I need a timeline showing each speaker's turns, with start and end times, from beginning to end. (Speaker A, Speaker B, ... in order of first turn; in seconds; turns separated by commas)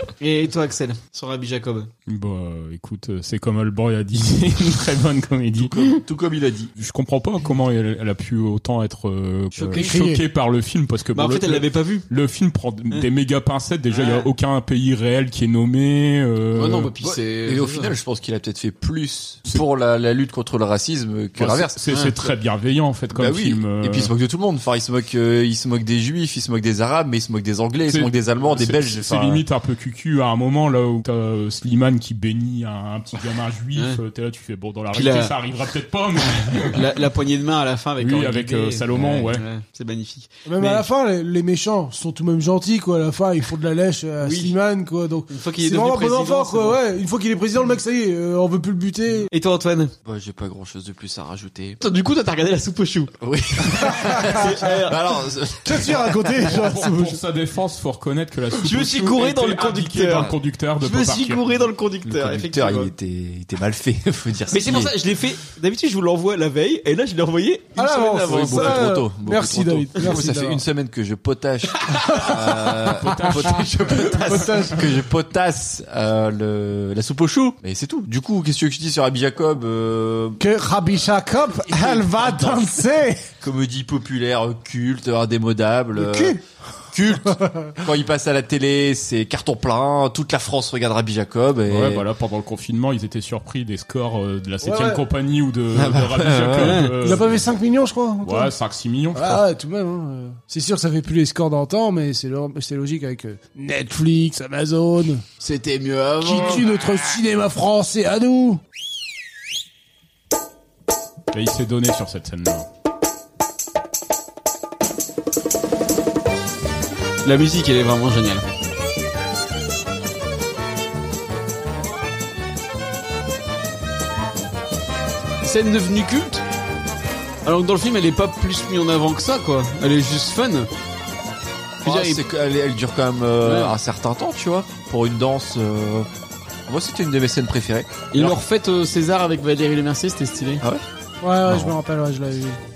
Speaker A: 0.2-1.9, Speaker B: 2.1-6.0, Speaker C: 5.6-6.7, Speaker B: 6.8-16.9, Speaker A: 9.5-9.9, Speaker D: 9.7-10.2, Speaker A: 11.1-12.1, Speaker A: 13.9-14.3, Speaker A: 16.6-17.9, Speaker C: 17.0-21.8, Speaker B: 21.4-24.1, Speaker A: 21.9-22.2, Speaker C: 23.1-29.4, Speaker B: 27.9-36.8, Speaker A: 34.9-35.4, Speaker A: 36.6-40.9, Speaker B: 38.0-39.4, Speaker D: 40.5-49.3, Speaker A: 44.2-44.5, Speaker A: 45.3-46.8, Speaker A: 49.3-49.9, Speaker C: 50.0-51.8, Speaker A: 51.8-53.1, Speaker C: 53.2-56.4, Speaker A: 53.8-55.0, Speaker D: 54.1-54.4, Speaker D: 55.6-57.2, Speaker B: 56.5-61.6, Speaker A: 58.6-62.9, Speaker C: 62.0-64.9, Speaker A: 64.5-68.9, Speaker D: 67.8-70.6, Speaker C: 68.2-80.4, Speaker D: 72.1-73.3, Speaker B: 73.0-74.7, Speaker D: 74.0-74.9, Speaker D: 80.4-83.3, Speaker C: 81.7-82.8, Speaker C: 83.4-86.4, Speaker D: 86.0-86.4, Speaker C: 86.9-92.1, Speaker D: 87.3-87.8, Speaker B: 91.7-97.5, Speaker D: 94.6-95.0, Speaker C: 95.7-96.9, Speaker A: 96.6-97.0, Speaker D: 97.0-98.5, Speaker B: 98.2-99.4, Speaker D: 99.1-105.2, Speaker A: 105.4-106.8, Speaker D: 106.2-108.6, Speaker B: 111.3-112.7, Speaker A: 117.2-118.5, Speaker A: 125.4-126.4, Speaker A: 127.5-130.7, Speaker C: 131.8-136.1, Speaker A: 131.8-132.3, Speaker A: 133.4-133.8, Speaker C: 136.7-138.4, Speaker A: 138.1-140.6, Speaker D: 141.2-142.6, Speaker C: 141.4-141.8